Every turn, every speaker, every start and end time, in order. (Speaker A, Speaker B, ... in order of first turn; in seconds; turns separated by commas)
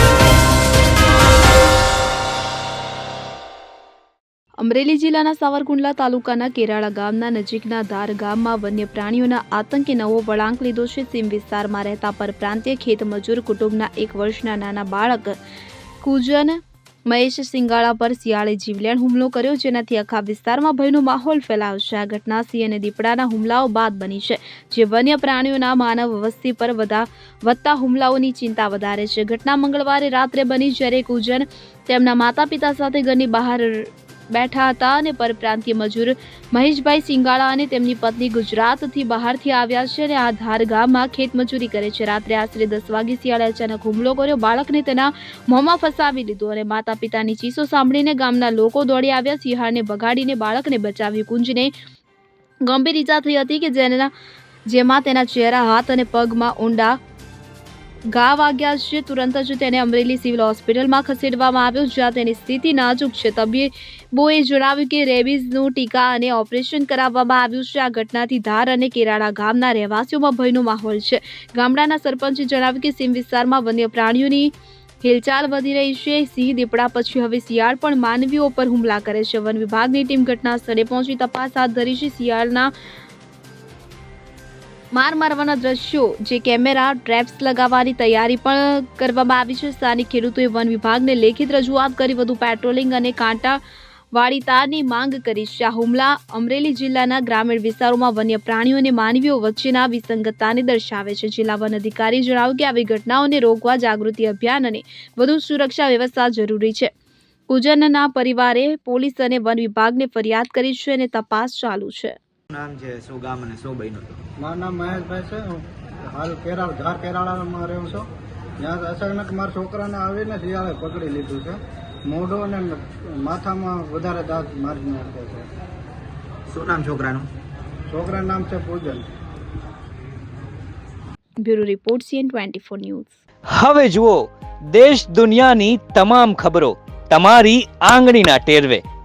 Speaker A: 4.6-15.4, Speaker A: 16.0-51.7, Speaker A: 52.6-54.1, Speaker A: 54.7-57.0, Speaker A: 58.1-82.7, Speaker A: 84.9-93.6, Speaker A: 94.1-106.9, Speaker A: 107.5-112.2, Speaker B: 112.5-114.2, Speaker C: 114.4-118.1, Speaker C: 118.6-125.5, Speaker B: 126.5-127.3, Speaker C: 127.9-129.1, Speaker A: 131.4-133.2, Speaker D: 133.5-138.8